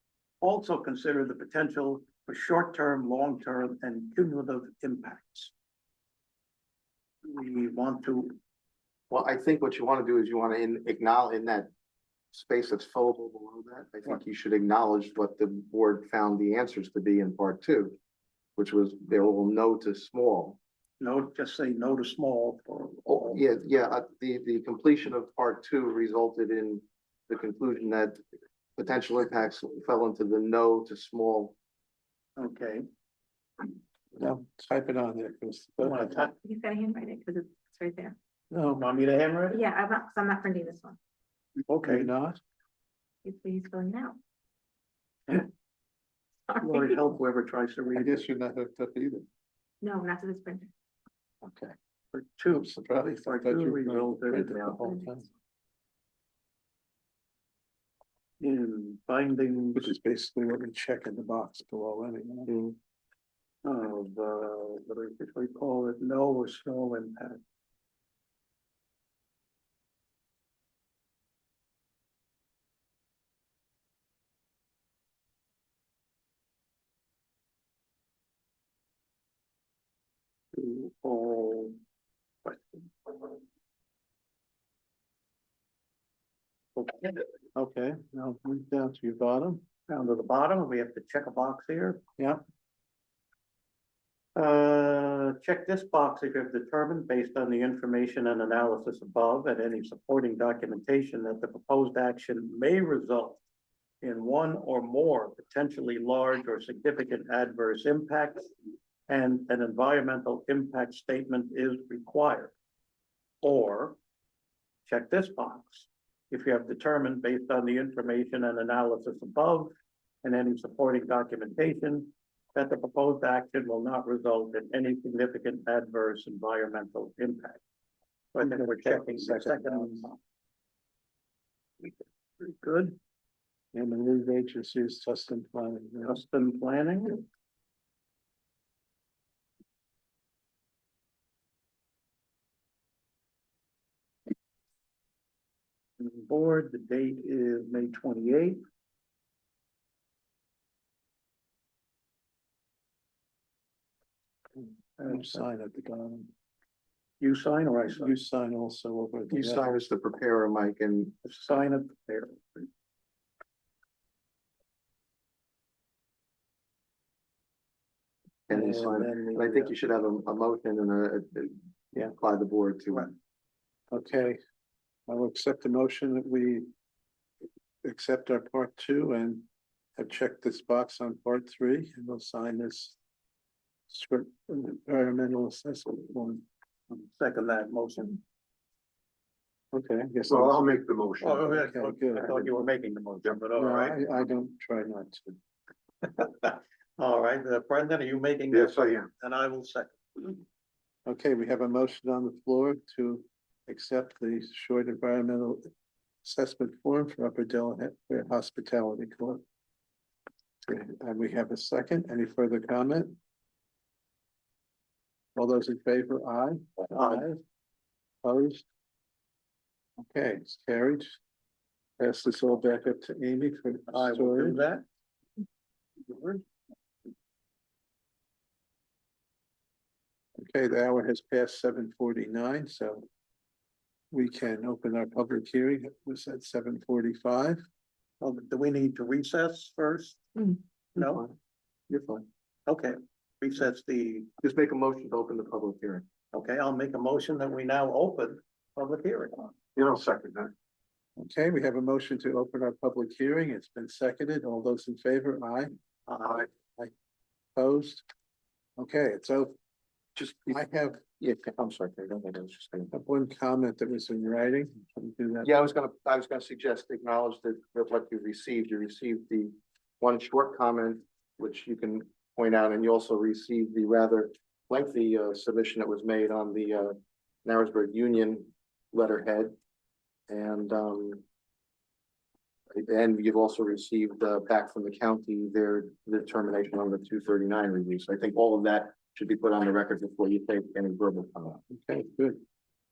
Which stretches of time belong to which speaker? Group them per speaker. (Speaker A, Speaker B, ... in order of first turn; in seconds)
Speaker A: 0.4-5.5, 7.2-8.4, 21.0-23.4, 32.4-32.9, 35.8-36.3, 38.7-39.6, 41.7-42.1, 46.6-48.3, 52.1-54.9, 58.4-60.0, 63.6-67.4, 80.5-81.8, 82.5-83.4, 86.8-87.2, 89.9-92.0, 94.4-103.4, 104.0-108.5, 109.1-112.5, 113.4-114.0, 114.9-127.6, 128.3-130.2, 131.8-133.0, 136.1-137.2, 146.0-148.6, 155.0-155.4, 157.2-158.1, 161.2-162.7, 168.5-169.8, 186.9-188.2, 191.2-194.0, 196.0-200.4, 216.9-217.4, 223.9-224.8, 226.0-226.4, 238.2-241.2, 242.7-244.3, 246.3-249.6, 256.1-256.5
Speaker B: 9.1-11.7, 12.3-17.9, 18.6-20.6, 23.1-28.2, 28.8-31.6, 62.5-62.8, 159.3-161.2, 168.5-173.1, 241.0-241.3, 241.9-242.3, 244.4-246.1, 260.2-260.6, 261.2-262.9, 265.4-279.6, 280.3-281.2, 282.7-291.6
Speaker C: 34.1-36.2, 38.5-38.8, 41.8-42.4, 47.9-49.3, 51.4-51.8, 52.5-55.3, 59.8-62.5, 87.5-89.7, 128.4-130.1, 133.7-136.2, 155.1-156.3, 157.9-159.7, 173.9-174.4, 175.1-176.7, 177.8-179.5, 180.0-183.0, 183.9-186.4, 189.7-190.7, 191.5-192.5, 193.5-195.4, 201.1-205.7, 206.2-209.4, 210.7-213.2, 215.3-217.3, 218.2-218.7, 220.0-221.2, 222.0-224.6, 230.4-233.1, 234.1-237.6, 251.2-255.7, 257.6-258.0, 258.8-259.5, 260.5-261.0, 262.9-265.5, 291.7-292.4
Speaker D: 36.2-38.2, 39.5-41.0, 43.2-44.2, 46.5-46.9, 49.8-50.7
Speaker E: 190.3-191.5, 198.5-199.1, 249.8-250.5